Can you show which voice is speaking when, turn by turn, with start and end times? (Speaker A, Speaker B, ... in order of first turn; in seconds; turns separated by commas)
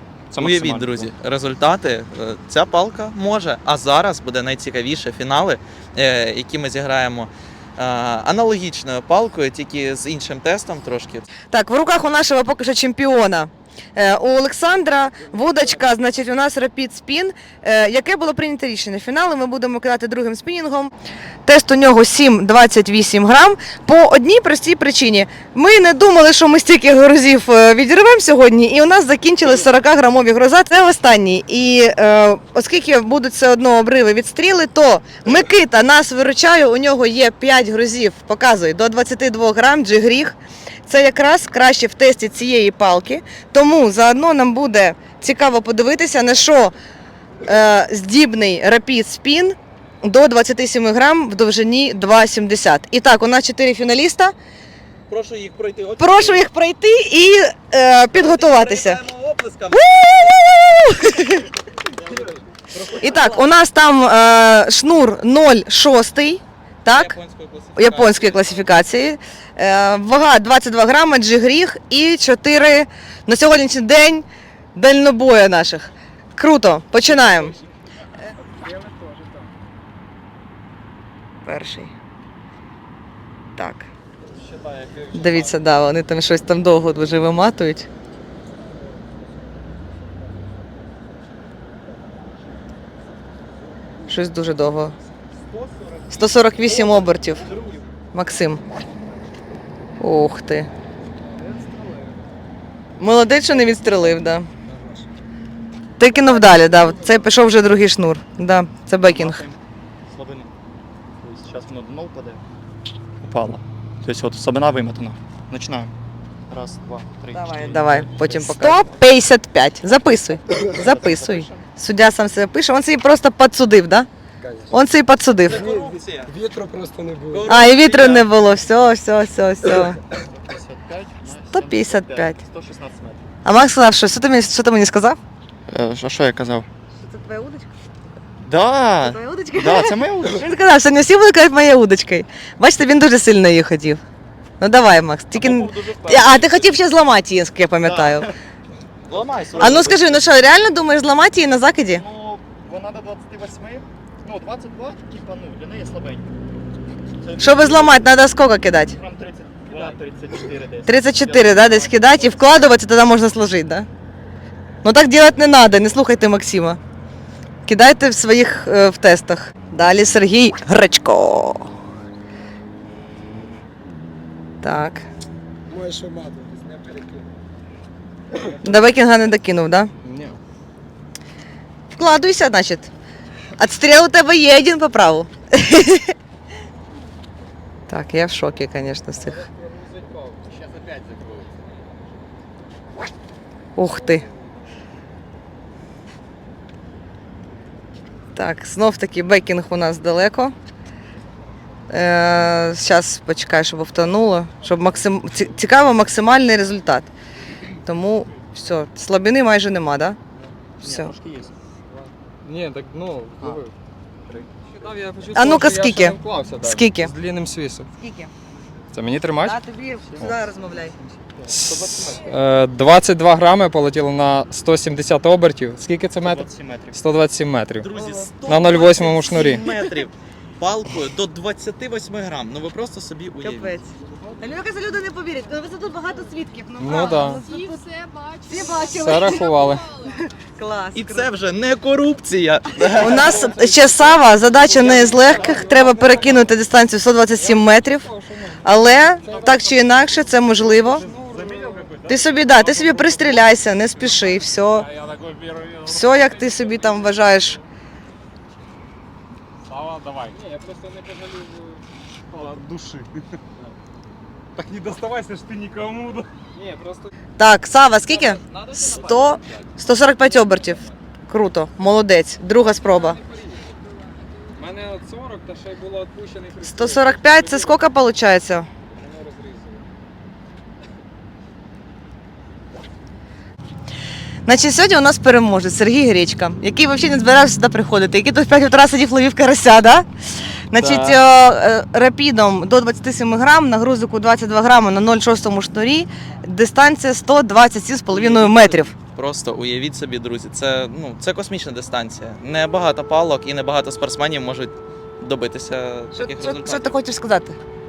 Speaker A: 0.3-1.1, Speaker B: 0.4-11.3, Speaker C: 11.5-20.9, Speaker C: 21.4-40.4, Speaker C: 40.9-46.7, Speaker C: 47.4-54.3, Speaker B: 55.1-56.5, Speaker C: 56.0-59.0, Speaker B: 58.1-59.9, Speaker C: 59.7-61.5, Speaker B: 62.0-63.4, Speaker C: 63.0-67.2, Speaker B: 66.9-68.7, Speaker C: 67.8-77.5, Speaker D: 78.4-79.5, Speaker C: 81.4-81.9, Speaker C: 83.6-83.9, Speaker C: 85.1-87.9, Speaker C: 94.1-94.9, Speaker C: 96.1-97.5, Speaker C: 98.1-98.6, Speaker C: 100.0-100.7, Speaker D: 101.2-102.3, Speaker C: 103.0-104.5, Speaker D: 104.7-105.0, Speaker C: 106.0-109.4, Speaker D: 106.0-107.2, Speaker A: 109.0-110.5, Speaker A: 111.2-112.4, Speaker A: 113.2-115.9, Speaker A: 116.5-119.0, Speaker C: 117.3-124.1, Speaker A: 120.6-121.7, Speaker D: 124.4-124.7, Speaker C: 124.7-125.6, Speaker B: 125.4-126.3, Speaker D: 125.5-127.5, Speaker B: 127.3-128.3, Speaker C: 127.5-130.0, Speaker A: 130.2-133.3, Speaker C: 131.5-132.4, Speaker C: 133.4-135.2, Speaker A: 135.7-136.7, Speaker C: 136.9-137.7, Speaker A: 138.4-140.6, Speaker C: 139.0-144.0, Speaker C: 144.6-148.3, Speaker A: 145.4-146.4, Speaker B: 145.4-146.5, Speaker A: 147.8-148.3, Speaker B: 149.1-150.2, Speaker A: 149.4-149.9, Speaker C: 149.6-152.0, Speaker A: 151.9-156.3, Speaker A: 157.2-158.0, Speaker C: 157.4-158.9, Speaker A: 158.9-162.7, Speaker C: 160.9-163.9, Speaker C: 164.8-166.8, Speaker C: 167.7-171.7, Speaker C: 174.6-175.0, Speaker D: 175.7-177.3, Speaker D: 178.3-178.6, Speaker C: 178.6-179.9, Speaker E: 180.0-180.4, Speaker C: 181.9-182.9, Speaker C: 183.6-186.1, Speaker C: 187.9-189.4, Speaker E: 189.4-190.4, Speaker C: 193.8-194.2, Speaker C: 198.3-200.5, Speaker C: 201.9-207.1, Speaker C: 207.8-210.2, Speaker A: 210.8-211.5, Speaker C: 210.8-211.1, Speaker E: 211.9-213.7, Speaker E: 214.2-217.9, Speaker C: 215.3-217.1, Speaker C: 217.9-218.3, Speaker E: 218.9-219.6, Speaker C: 219.4-221.0, Speaker A: 221.4-222.2, Speaker E: 221.5-227.9, Speaker A: 226.2-227.0, Speaker B: 227.8-233.8, Speaker C: 227.9-228.3, Speaker E: 228.4-229.6, Speaker C: 233.4-237.8, Speaker E: 236.8-237.4, Speaker F: 236.9-240.2, Speaker C: 238.5-239.5, Speaker E: 238.9-239.9, Speaker C: 240.6-241.3, Speaker B: 240.9-243.5, Speaker C: 242.9-248.1, Speaker E: 243.4-246.5, Speaker E: 247.4-249.9, Speaker C: 248.6-251.1, Speaker E: 250.8-252.1, Speaker C: 252.1-254.9, Speaker E: 252.9-253.2, Speaker C: 255.8-257.6, Speaker E: 260.2-261.8, Speaker E: 262.3-263.0, Speaker E: 266.0-267.1, Speaker C: 267.4-273.2, Speaker E: 272.9-273.6, Speaker E: 274.5-277.8, Speaker C: 276.6-278.7, Speaker E: 278.9-279.8, Speaker C: 284.4-290.1, Speaker C: 290.7-298.9, Speaker E: 290.8-291.2, Speaker B: 298.1-306.9, Speaker C: 306.1-307.6